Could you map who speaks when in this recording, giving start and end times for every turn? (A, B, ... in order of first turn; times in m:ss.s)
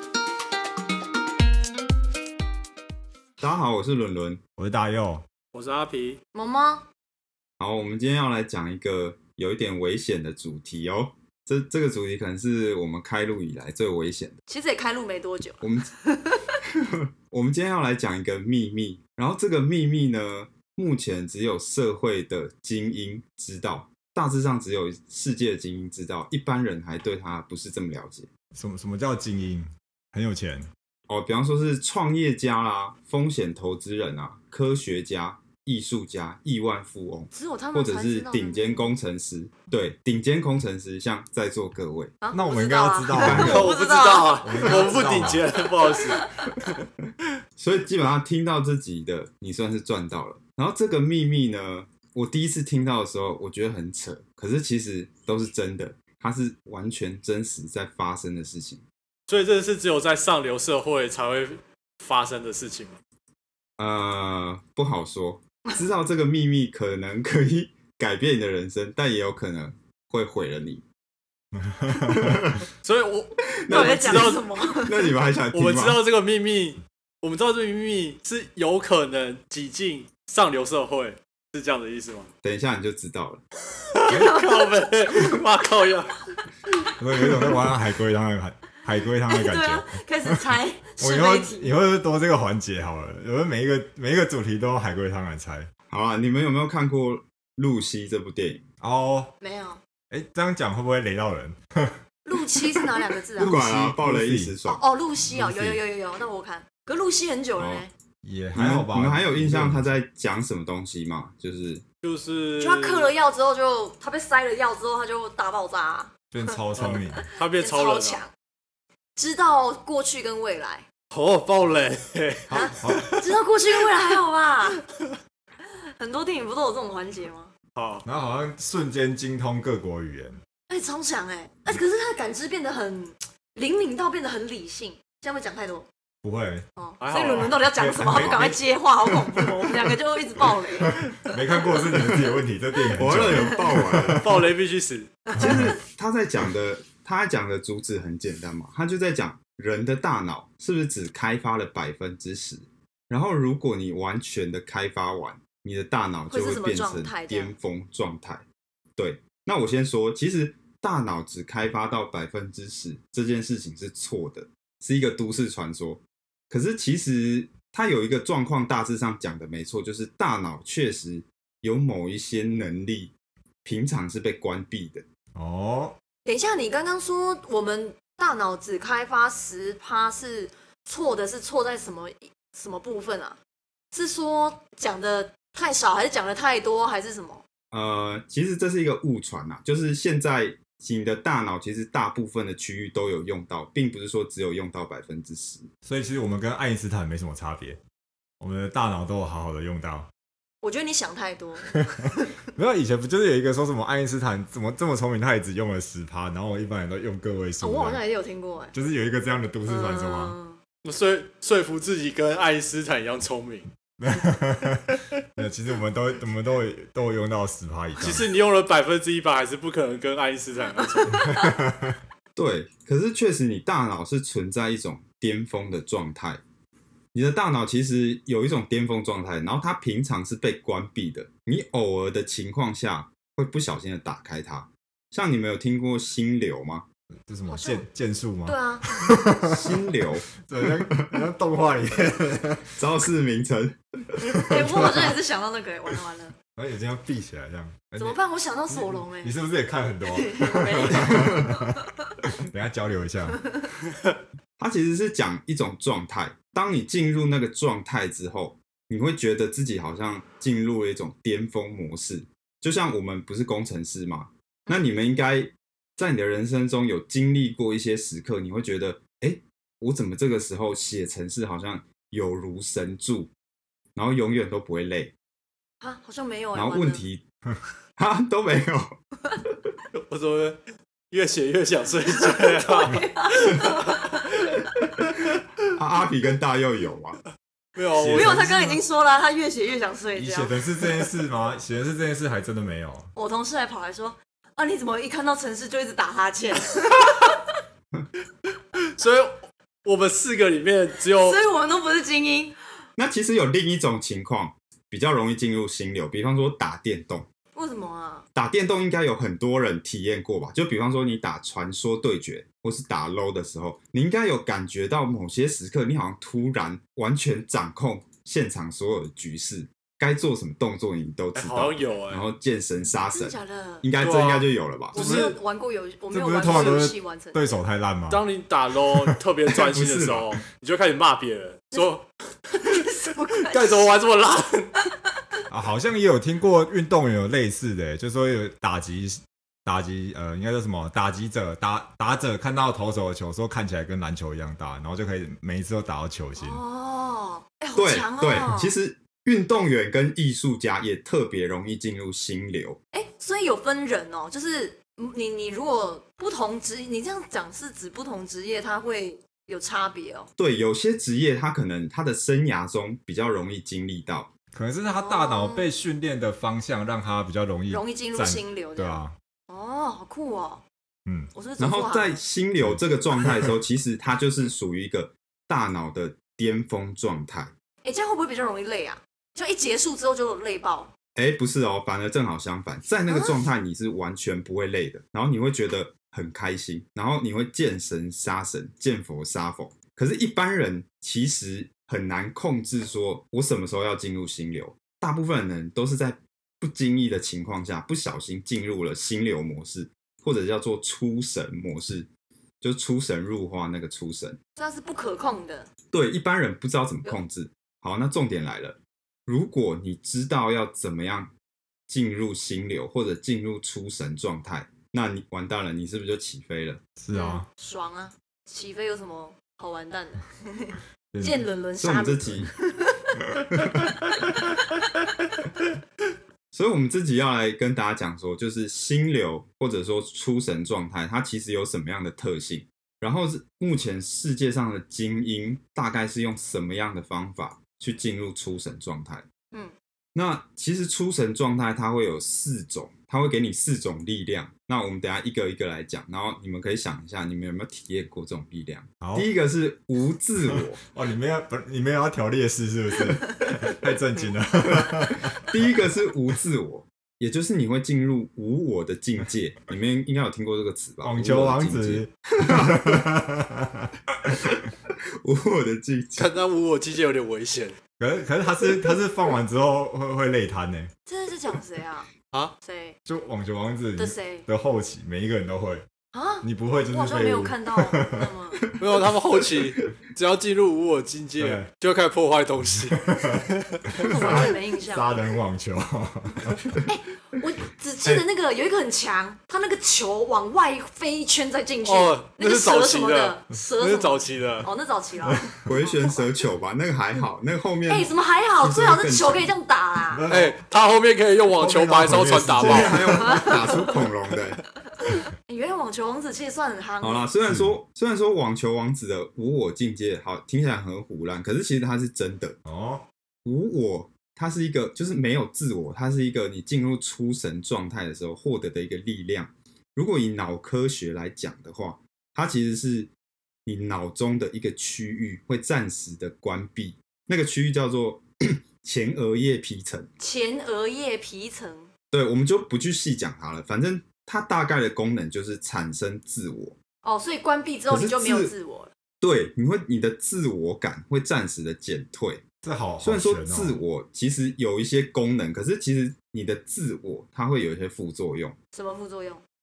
0:03.4-0:04.4 A
0:04.6-0:05.2 B
0:05.5-0:06.2 C
0:06.3-0:06.9 D
0:07.6-0:14.4 A
0:14.5-0:16.5 D
0:15.6-0:15.9 A
0:17.2-0:28.3 A
0:28.5-0:30.7 B
0:31.1-0:42.1 A
0:37.3-0:38.9 D
0:42.2-0:45.1 D
0:42.3-0:43.8 B
0:43.1-0:43.7 A
0:43.2-0:46.2 C
0:44.4-0:45.5 B
0:46.2-0:46.5 D
0:47.6-0:58.8 A
0:59.3-1:03.0 C
1:03.8-1:10.8 A
1:11.6-1:12.4 B
1:12.0-1:12.6 A
1:12.8-1:14.4 C
1:13.5-1:16.0 A
1:13.7-1:15.1 D
1:15.5-1:22.3 C
1:22.4-1:23.4 A
1:23.9-1:26.4 C
1:24.1-1:24.4 B
1:24.1-1:24.5 D
1:27.0-1:30.4 B
1:29.3-1:31.8 D
1:31.0-1:35.7 B
1:35.9-1:38.6 A
1:38.8-1:39.3 B
1:39.4-1:39.8 D
1:40.1-1:42.0 B
1:42.2-1:43.6 D
1:43.4-1:44.5 B
1:43.4-1:44.8 A
1:44.6-1:47.9 D
1:45.2-1:45.8 B
1:47.6-1:47.9 A
1:48.2-1:49.9 B
1:48.5-1:51.8 A
1:52.0-1:53.1 C
1:52.6-1:56.6 D
1:56.3-1:57.3 B
1:56.8-1:58.2 C
1:57.2-1:58.3 D
1:59.2-2:00.9 D
2:01.1-2:03.2 C
2:02.5-2:04.8 D
2:02.6-2:03.1 B
2:06.0-2:07.5 D
2:07.8-2:08.0 C
2:08.0-2:10.4 B
2:10.7-2:15.9 D
2:16.2-2:16.7 B
2:16.8-2:21.3 D
2:17.0-2:17.7 C
2:17.4-2:18.7 B
2:20.8-2:24.5 B
2:21.9-2:22.2 A
2:23.0-2:24.3 A
2:24.2-2:25.2 C
2:25.3-2:25.7 D
2:25.3-2:38.4 A
2:25.4-2:25.7 B
2:36.3-2:37.6 D
2:39.0-2:53.1 A
2:53.6-2:55.0 A
2:55.4-2:56.0 B
2:56.2-3:03.4 D
3:03.9-3:07.4 D
3:07.7-3:15.7 A
3:15.8-3:17.8 B
3:18.4-3:20.1 B
3:20.6-3:22.4 D
3:22.5-3:28.0 B
3:27.6-3:28.7 D
3:28.7-3:30.4 B
3:29.7-3:30.6 D
3:30.8-3:33.7 C
3:34.0-3:38.3 B
3:38.0-3:41.4 C
3:41.3-3:42.0 B
3:42.4-3:46.4 A
3:47.1-3:56.9 A
3:57.3-3:59.6 B
3:57.5-3:57.8 D
3:58.5-3:59.1 D
3:59.4-4:00.3 A
4:00.4-4:02.8 B
4:02.8-4:04.9 A
4:04.3-4:05.1 B
4:04.5-4:06.4 D
4:06.5-4:08.2 B
4:08.0-4:09.4 D
4:08.7-4:11.8 B
4:10.1-4:12.0 D
4:11.0-4:11.3 A
4:12.4-4:13.5 B
4:14.6-4:33.3 A
4:34.0-4:35.1 A
4:35.8-4:37.0 D
4:36.5-4:37.2 A
4:38.0-4:39.0 A
4:39.9-4:40.6 C
4:41.1-4:44.2 C
4:42.5-4:44.3 D
4:45.7-4:47.2 A
4:47.8-4:48.4 C
4:48.0-4:48.8 B
4:48.1-4:51.0 D
4:50.2-4:53.1 B
4:53.2-4:57.6 D
4:59.0-5:01.4 C
5:01.2-5:02.6 D
5:03.0-5:07.3 A
5:07.6-5:08.2 D
5:08.4-5:25.1 A
5:21.3-5:22.3 C
5:23.1-5:23.9 D
5:24.0-5:25.4 C
5:24.9-5:27.6 D
5:25.0-5:25.3 B
5:26.1-5:28.2 B
5:28.1-5:32.1 C
5:29.5-5:30.3 A
5:32.5-5:33.9 D
5:33.4-5:34.7 C
5:35.5-5:46.6 B
5:46.4-5:48.7 D
5:47.8-5:52.8 A
5:52.9-6:00.3 D
6:00.4-6:04.3 A
6:04.5-6:09.2 B
6:05.0-6:05.7 D
6:07.7-6:10.6 D
6:11.1-6:11.3 B
6:11.3-6:12.2 D
6:11.6-6:17.5 A
6:12.6-6:13.6 B
6:17.8-6:20.9 D
6:21.2-6:42.1 A
6:23.1-6:23.4 D
6:42.6-6:44.4 A
6:44.6-6:45.7 D
6:45.9-6:51.3 A
6:51.9-6:56.8 A
6:57.0-6:57.5 B
6:57.1-7:03.2 D
7:01.1-7:01.4 B
7:01.8-7:02.5 A
7:03.6-7:03.8 A
7:06.5-7:19.3 A
7:20.2-7:30.8 A
7:29.0-7:29.3 B
7:30.4-7:35.8 B
7:34.7-7:43.2 A
7:41.0-7:44.4 B
7:44.3-7:46.3 A
7:46.2-7:47.8 C
7:48.0-7:50.9 B
7:51.1-7:53.0 D
7:53.1-7:55.9 B
7:54.0-7:54.5 D
7:56.1-7:58.6 D
7:56.4-7:58.3 B
7:58.8-8:03.1 C
8:01.4-8:01.7 B
8:03.0-8:06.7 B
8:03.9-8:04.5 C
8:04.1-8:05.1 D
8:06.9-8:16.3 D
8:11.8-8:14.7 C
8:15.6-8:19.5 A
8:17.8-8:20.3 D
8:20.1-8:20.6 B
8:20.3-8:23.0 C
8:21.5-8:23.7 B
8:22.6-8:24.6 A
8:23.1-8:24.1 D
8:25.0-8:27.3 D
8:27.0-8:32.6 A
8:27.5-8:27.8 B
8:32.6-8:33.1 B
8:33.4-8:43.1 A
8:43.7-8:50.1 A
8:50.2-8:51.9 D
8:52.1-8:56.8 A
8:57.0-8:58.9 D
8:57.9-8:58.5 A
8:59.2-9:02.4 A
9:02.6-9:03.8 B
9:03.0-9:08.6 A
9:08.7-9:09.4 D